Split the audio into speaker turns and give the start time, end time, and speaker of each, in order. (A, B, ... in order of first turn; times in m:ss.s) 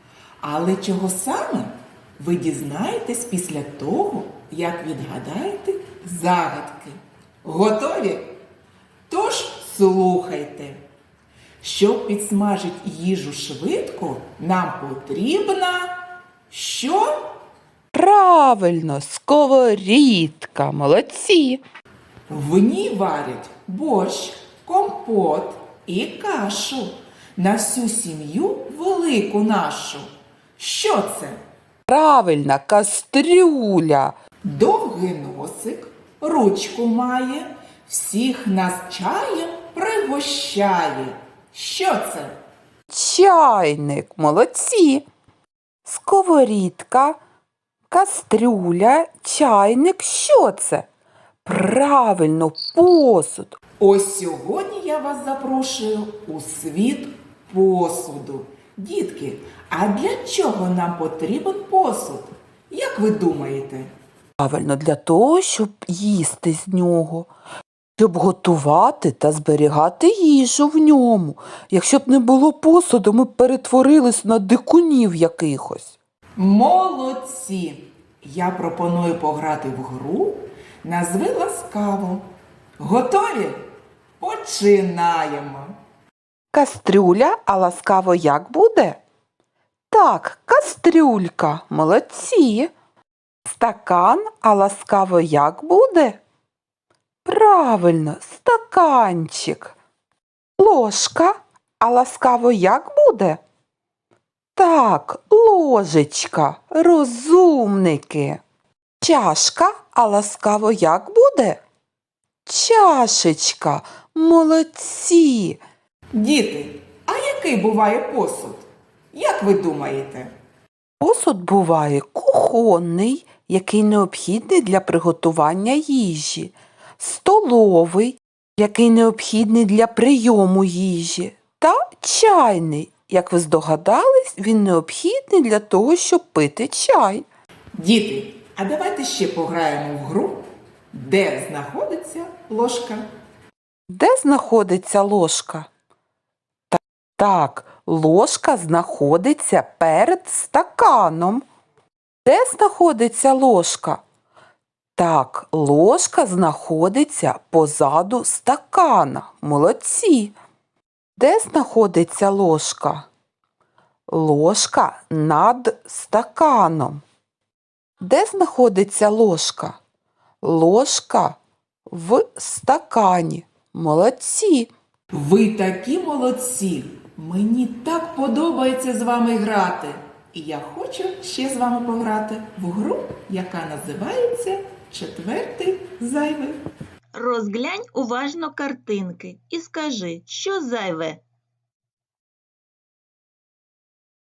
0:00.4-0:08.3 A
0:09.1-0:10.8 A
0:11.6-0:17.1 A
0:17.9-0:21.6 B
0:22.3-0:30.1 A
0:30.6-0:31.4 A
0:31.9-0:34.2 B
0:34.4-0:42.3 A
0:42.9-0:45.1 B
0:45.9-0:47.2 B
0:47.9-0:50.9 B
0:51.4-0:53.6 B
0:53.8-1:03.9 A
1:04.4-1:07.3 B
1:08.0-1:16.0 B
1:16.4-1:22.2 A
1:22.8-1:23.6 A
1:24.2-1:25.8 A
1:26.5-1:29.0 B
1:29.9-1:32.7 B
1:33.5-1:36.2 B
1:37.2-1:39.8 B
1:40.6-1:43.4 B
1:44.6-1:48.4 B
1:49.0-1:51.6 B
1:52.5-1:55.6 B
1:56.1-2:00.3 A
2:01.0-2:17.3 B
2:17.8-2:23.0 A
2:23.9-2:25.7 B
2:26.7-2:31.4 B
2:32.2-2:34.0 B
2:35.0-2:40.3 B
2:41.2-2:43.1 B
2:44.1-2:47.0 B
2:48.0-2:49.8 B
2:50.4-2:51.4 B
2:51.9-2:54.7 B
2:55.1-3:06.6 A
3:07.1-3:11.2 C